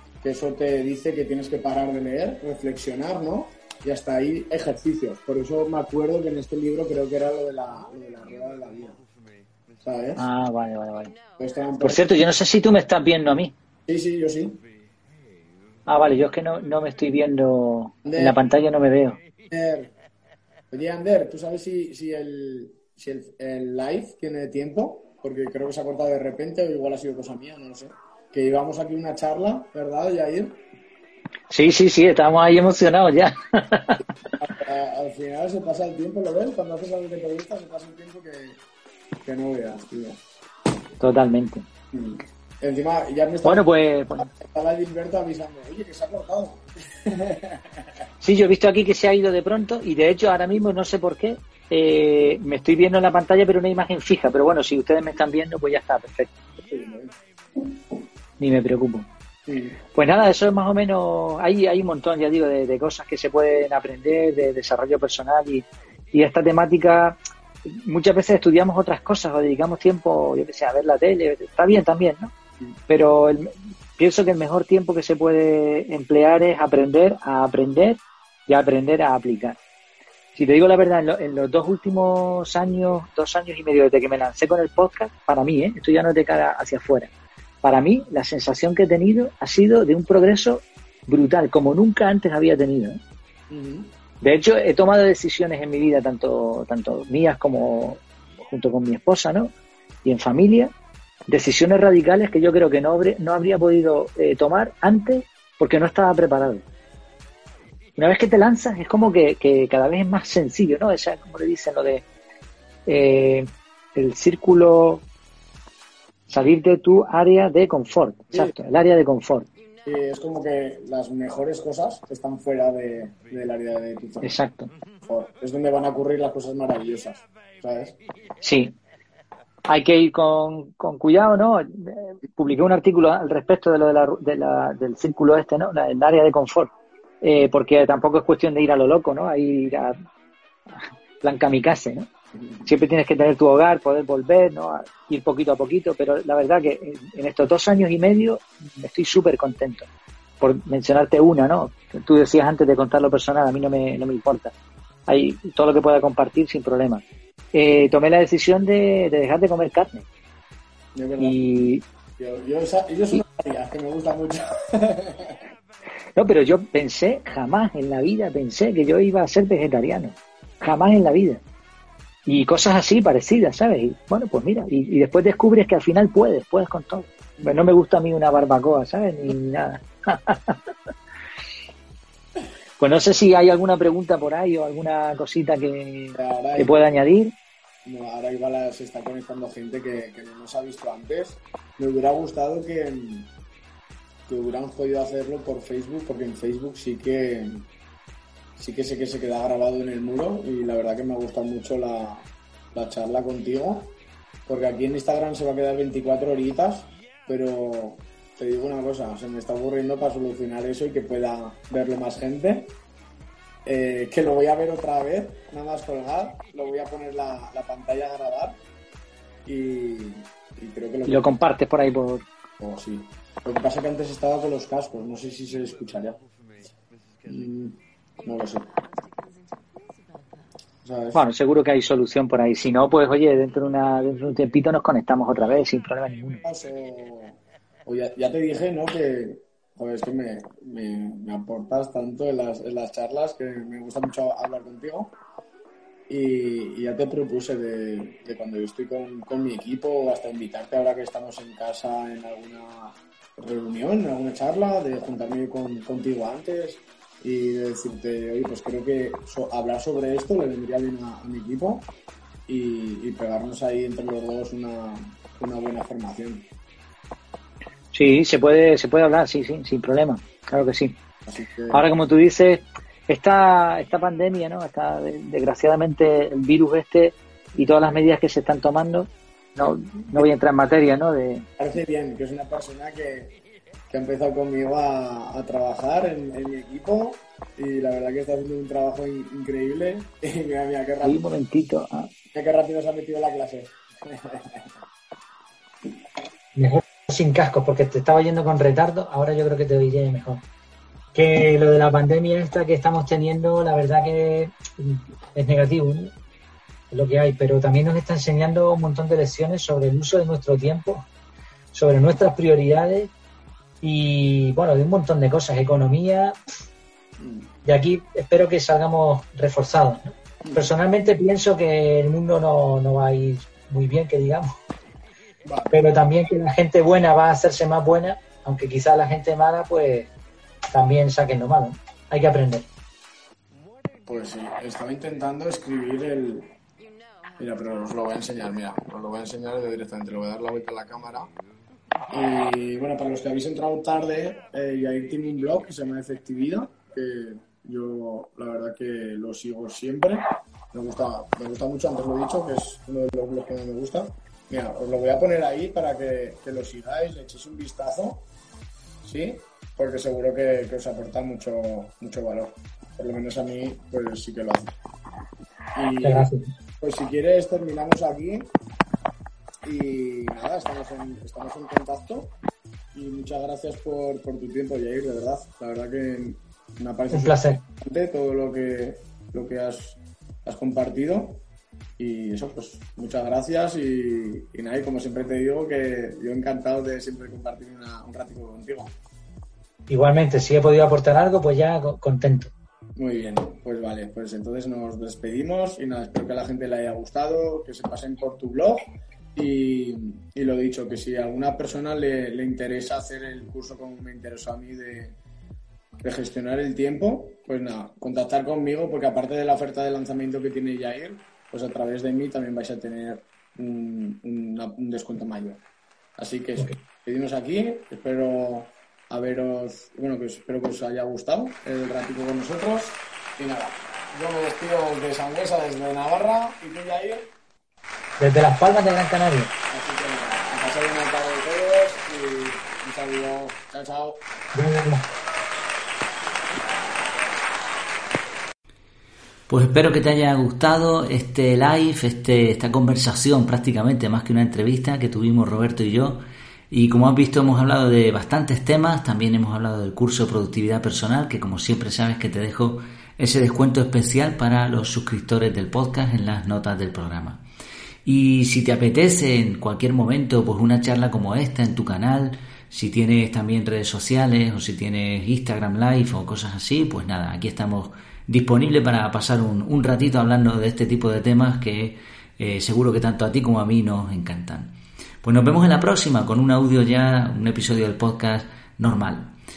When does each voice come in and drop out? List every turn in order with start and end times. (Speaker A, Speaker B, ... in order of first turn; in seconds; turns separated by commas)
Speaker A: 0.2-9.0, Speaker A: 9.8-10.2, Speaker B: 10.2-11.2, Speaker A: 11.4-12.2, Speaker B: 11.8-13.5, Speaker A: 13.9-14.6, Speaker B: 15.9-19.2, Speaker A: 18.0-18.4, Speaker A: 19.5-19.9, Speaker A: 20.7-30.6, Speaker B: 31.5-34.0, Speaker A: 34.4-38.6, Speaker A: 39.2-40.2, Speaker B: 41.0-41.7, Speaker A: 41.9-43.6, Speaker B: 43.4-44.3, Speaker A: 44.2-47.9, Speaker B: 48.2-56.3, Speaker A: 56.6-57.1, Speaker B: 58.4-59.1, Speaker A: 59.5-59.8, Speaker B: 59.9-72.3, Speaker B: 72.9-79.6, Speaker B: 80.3-87.1, Speaker B: 87.6-93.0, Speaker A: 93.5-93.9, Speaker B: 94.2-99.5, Speaker B: 100.0-100.7, Speaker B: 101.3-106.6, Speaker B: 108.0-112.0, Speaker B: 112.9-115.0, Speaker B: 116.3-119.5, Speaker A: 119.8-124.3, Speaker B: 124.2-124.7, Speaker A: 125.0-128.0, Speaker B: 128.4-128.7, Speaker B: 129.7-139.9, Speaker B: 141.2-142.1, Speaker B: 142.6-149.9, Speaker B: 150.4-154.5, Speaker B: 155.1-160.1, Speaker A: 160.9-161.5, Speaker B: 161.2-161.8, Speaker A: 162.2-165.4, Speaker B: 166.2-171.4, Speaker B: 172.2-180.6, Speaker B: 182.8-187.3, Speaker A: 186.1-186.9, Speaker A: 187.8-193.3, Speaker A: 194.3-197.7, Speaker A: 198.6-203.9, Speaker A: 204.5-212.7, Speaker A: 213.6-218.6, Speaker A: 219.4-221.4, Speaker B: 221.1-222.2, Speaker A: 222.6-226.2, Speaker A: 227.2-228.7, Speaker A: 230.8-231.2, Speaker B: 231.1-236.4, Speaker A: 236.4-245.1, Speaker A: 246.1-261.9, Speaker A: 262.5-266.5, Speaker B: 267.9-270.9, Speaker A: 271.3-271.8, Speaker B: 271.7-281.5, Speaker A: 281.6-283.4, Speaker A: 283.9-291.2, Speaker B: 291.0-292.1, Speaker A: 292.3-294.7, Speaker B: 296.5-300.4, Speaker B: 301.1-306.1, Speaker B: 306.9-311.1, Speaker B: 311.7-313.1, Speaker B: 313.8-316.4, Speaker A: 317.2-317.5, Speaker B: 317.6-324.5, Speaker A: 320.4-320.7, Speaker A: 325.4-325.8, Speaker B: 325.7-330.1, Speaker B: 330.7-332.7, Speaker A: 334.1-336.5, Speaker A: 337.4-341.3, Speaker A: 342.1-358.2, Speaker A: 359.0-364.8, Speaker A: 365.7-366.3, Speaker B: 366.0-366.5, Speaker A: 366.8-368.5, Speaker A: 369.6-372.3, Speaker A: 372.9-381.4, Speaker B: 377.1-377.6, Speaker A: 382.0-388.9, Speaker B: 389.9-392.5, Speaker A: 393.0-398.8, Speaker A: 399.3-405.1, Speaker A: 406.0-415.6, Speaker A: 416.2-427.3, Speaker B: 428.2-429.5, Speaker A: 429.7-434.2, Speaker B: 434.5-435.1, Speaker C: 439.5-457.4, Speaker C: 458.0-479.3